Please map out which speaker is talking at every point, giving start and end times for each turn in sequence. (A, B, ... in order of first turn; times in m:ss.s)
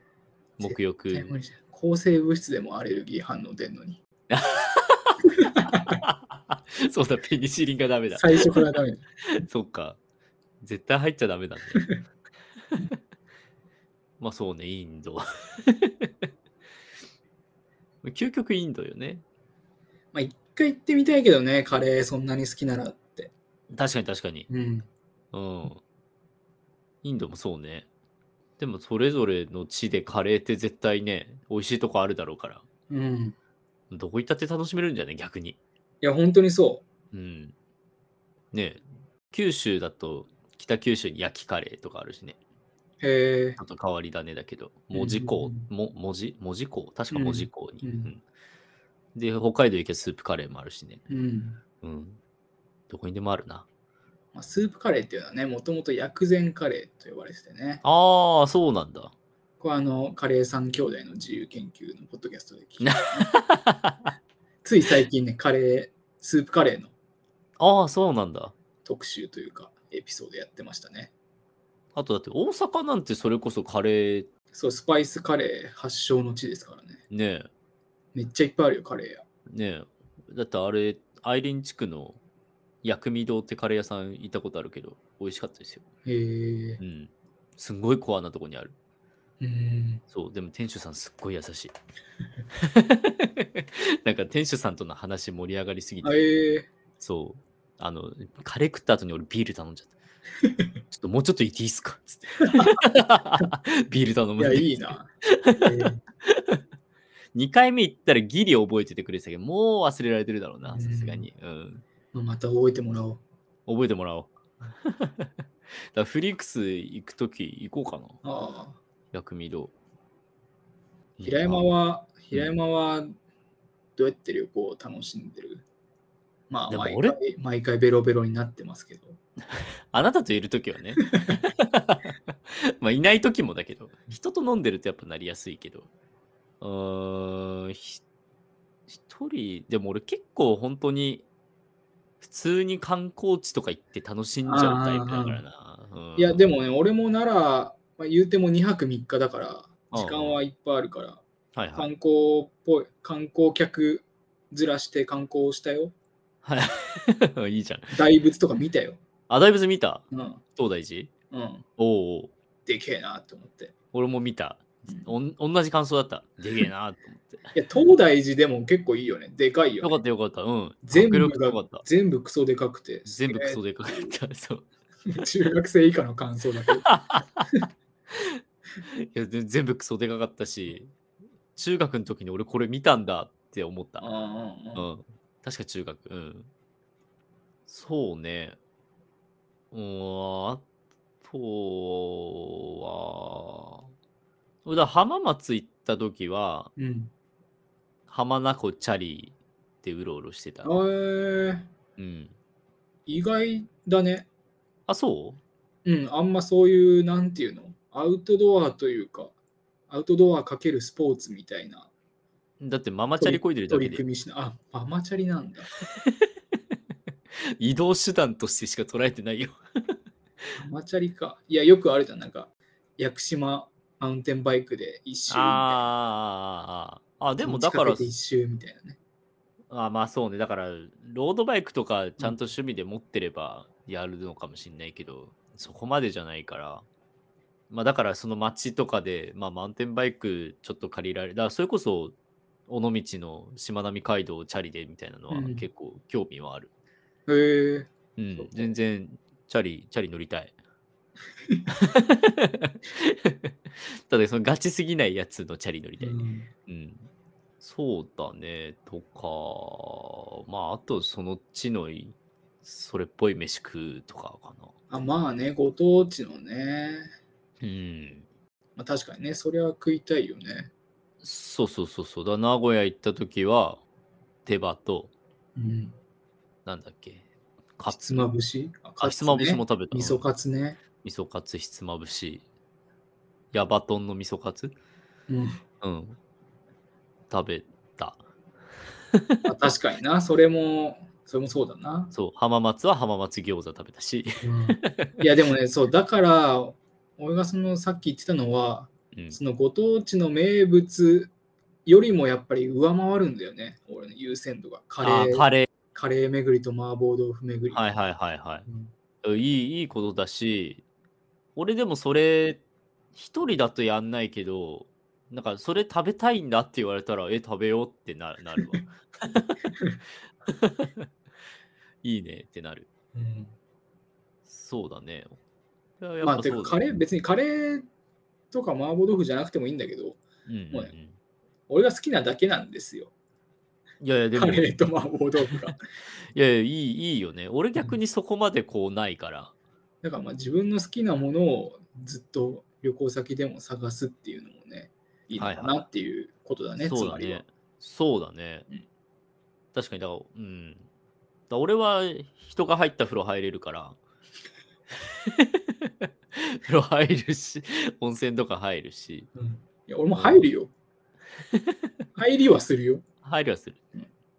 0:00.6-0:01.3 A
0:00.6-0:04.0 B
0:04.3-0:05.2 A
0:05.5-0:06.0 B
0:05.9-0:08.6 A
0:08.1-0:09.0 B
0:09.3-0:10.0 A
0:10.6-0:11.9 A
0:14.2-0:16.1 A
0:18.0-0:19.2 A
0:20.1-0:23.3 B
0:23.7-0:24.5 A
0:24.5-0:24.9 B
0:25.3-0:25.8 A
0:27.0-0:27.8 A
0:28.6-0:32.6 A
0:32.9-0:33.3 B
0:33.9-0:35.6 A
0:36.0-0:36.8 B
0:37.1-0:37.5 A
0:38.5-0:42.4 A
0:43.0-0:43.6 B
0:43.6-0:48.2 A
0:44.9-0:45.7 B
0:47.1-0:48.1 B
0:49.1-0:51.0 A
0:51.1-0:51.6 B
0:51.8-0:52.2 A
0:52.9-0:53.6 A
0:54.3-0:57.8 B
0:57.8-0:59.1 A
0:59.6-1:03.3 B
1:02.8-1:04.1 A
1:04.6-1:06.9 B
1:07.6-1:08.5 A
1:08.8-1:11.1 B
1:11.9-1:14.3 A
1:14.5-1:17.0 B
1:17.1-1:17.5 A
1:18.1-1:19.2 B
1:19.5-1:22.2 A
1:22.8-1:25.8 A
1:26.0-1:26.8 B
1:26.8-1:28.7 A
1:29.4-1:30.0 B
1:30.1-1:31.7 A
1:32.5-1:36.2 A
1:36.0-1:36.7 B
1:37.0-1:39.9 A
1:40.9-1:45.7 A
1:42.5-1:42.8 B
1:44.4-1:45.1 B
1:45.6-1:46.0 B
1:46.2-1:46.6 A
1:47.3-1:51.8 A
1:50.7-1:51.2 B
1:52.1-1:53.2 B
1:53.7-1:54.3 A
1:54.8-1:55.3 A
1:55.9-1:58.2 A
1:58.2-1:58.8 B
1:59.1-1:59.7 A
2:01.2-2:01.7 A
2:01.2-2:03.1 B
2:04.0-2:05.6 B
2:06.5-2:09.2 B
2:06.7-2:07.2 A
2:09.9-2:15.9 A
2:16.6-2:18.0 A
2:18.9-2:21.2 A
2:22.2-2:26.4 A
2:24.4-2:25.4 B
2:26.2-2:31.2 B
2:29.9-2:30.4 A
2:31.5-2:31.9 A
2:31.8-2:35.9 B
2:36.4-2:38.0 A
2:37.9-2:39.0 B
2:39.3-2:41.1 A
2:40.1-2:40.4 B
2:41.3-2:41.6 B
2:41.8-2:42.3 A
2:42.6-2:43.7 B
2:43.9-2:47.5 A
2:47.5-2:49.9 B
2:49.8-2:51.8 A
2:50.9-2:54.1 B
2:53.0-2:54.6 A
2:55.1-2:56.9 B
2:56.8-2:57.5 A
2:58.1-3:00.9 A
3:01.6-3:04.1 A
3:04.0-3:04.8 B
3:04.7-3:06.5 A
3:07.7-3:08.6 A
3:09.7-3:10.6 A
3:11.2-3:13.8 A
3:14.6-3:16.7 A
3:16.8-3:17.1 B
3:18.1-3:20.7 A
3:20.6-3:21.7 B
3:22.0-3:22.3 A
3:23.1-3:24.3 B
3:24.9-3:25.4 A
3:25.8-3:29.3 B
3:29.9-3:31.9 B
3:32.6-3:34.0 A
3:33.2-3:35.7 B
3:37.6-3:39.6 A
3:40.6-3:45.9 B
3:45.3-3:48.1 A
3:47.4-3:49.0 B
3:49.7-3:56.8 A
3:57.7-4:02.1 A
4:02.7-4:06.7 A
4:05.3-4:05.6 B
4:07.3-4:08.7 B
4:08.2-4:10.5 A
4:11.7-4:17.1 A
4:16.0-4:16.5 B
4:17.6-4:24.7 A
4:24.9-4:27.1 B
4:27.6-4:28.2 A
4:28.8-4:30.7 B
4:31.2-4:33.8 A
4:34.4-4:35.1 A
4:35.6-4:35.9 B
4:36.6-4:37.2 A
4:37.8-4:38.3 A
4:37.9-4:40.8 B
4:39.0-4:40.2 A
4:41.0-4:42.4 A
4:43.5-4:44.7 A
4:45.3-4:45.6 B
4:45.8-4:46.2 A
4:47.3-4:48.2 A
4:49.1-4:49.5 A
4:49.4-4:52.1 B
4:52.1-4:55.2 A
4:54.4-5:01.3 B
4:59.1-4:59.4 A
5:01.8-5:07.9 B
5:05.0-5:05.7 A
5:07.7-5:08.7 A
5:09.2-5:10.8 A
5:11.6-5:12.6 A
5:13.1-5:19.8 A
5:20.4-5:21.1 A
5:22.0-5:22.9 A
5:23.1-5:23.5 B
5:24.4-5:25.3 A
5:26.0-5:26.8 A
5:26.2-5:27.8 B
5:28.5-5:30.9 B
5:30.5-5:31.2 A
5:31.7-5:33.1 B
5:34.0-5:34.7 A
5:34.4-5:35.8 B
5:36.3-5:39.5 A
5:40.0-5:47.4 B
5:45.4-5:45.8 A
5:46.8-5:48.6 A
5:49.7-5:50.8 A
5:51.5-5:54.0 A
5:55.2-5:59.3 A
5:59.4-6:00.7 B
6:00.1-6:00.4 A
6:01.5-6:01.8 A
6:02.2-6:03.0 B
6:03.2-6:03.8 A